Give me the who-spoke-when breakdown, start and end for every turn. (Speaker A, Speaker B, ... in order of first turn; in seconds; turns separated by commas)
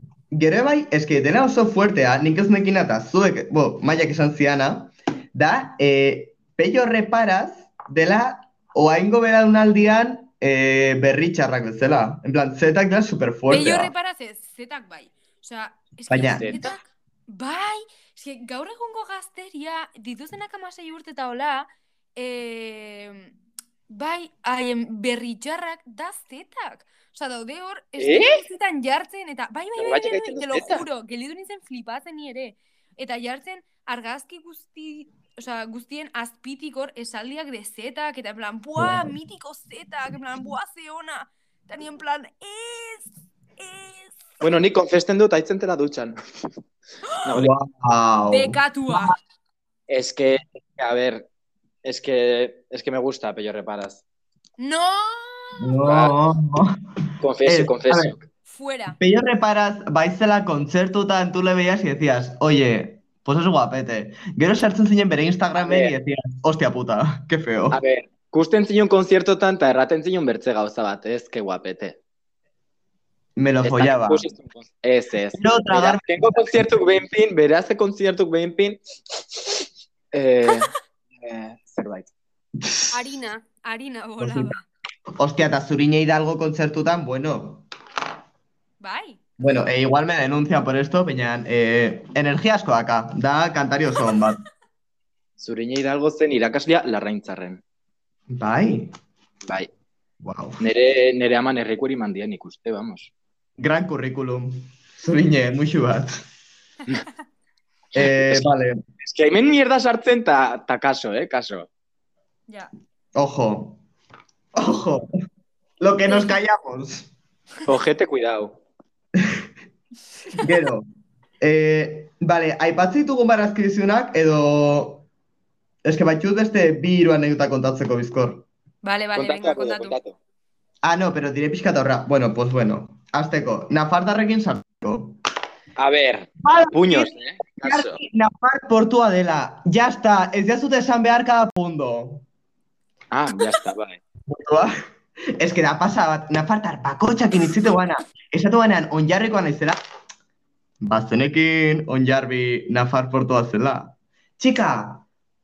Speaker A: 0.3-13.9, Speaker B: 13.5-23.3, Speaker A: 16.1-16.6, Speaker C: 16.4-16.7, Speaker B: 23.9-44.2, Speaker C: 28.0-28.4, Speaker C: 29.8-30.9, Speaker A: 38.8-39.1, Speaker C: 44.4-46.1, Speaker B: 47.1-47.3, Speaker C: 47.2-47.5, Speaker A: 47.3-49.1, Speaker B: 48.3-49.2, Speaker C: 49.9-51.2, Speaker C: 51.8-54.0, Speaker B: 54.6-55.8, Speaker A: 55.6-56.7, Speaker C: 55.9-56.1, Speaker C: 57.2-58.2, Speaker A: 57.4-58.1, Speaker B: 58.5-59.0, Speaker A: 59.0-67.8, Speaker C: 65.6-65.9, Speaker C: 67.7-72.0, Speaker A: 73.4-74.2, Speaker C: 73.6-82.1, Speaker A: 75.4-76.6, Speaker B: 82.9-84.6, Speaker A: 84.2-84.5, Speaker A: 85.2-87.6, Speaker B: 88.8-89.2, Speaker A: 89.4-94.4, Speaker C: 95.4-97.6, Speaker A: 98.3-98.9, Speaker A: 100.2-100.6, Speaker C: 100.6-103.1, Speaker A: 103.6-106.2, Speaker A: 107.9-108.8, Speaker C: 109.0-111.7, Speaker A: 113.1-113.8, Speaker A: 114.5-115.1, Speaker A: 115.8-117.1, Speaker B: 116.1-116.4, Speaker C: 117.7-118.6, Speaker A: 119.2-119.4, Speaker A: 120.4-120.8, Speaker A: 121.4-125.1, Speaker A: 125.8-128.5, Speaker B: 128.8-129.9, Speaker C: 129.2-130.2, Speaker A: 130.8-135.2, Speaker C: 135.8-138.0, Speaker A: 136.4-142.2, Speaker C: 143.1-144.0, Speaker A: 144.3-144.7, Speaker A: 145.4-149.8, Speaker A: 150.8-155.0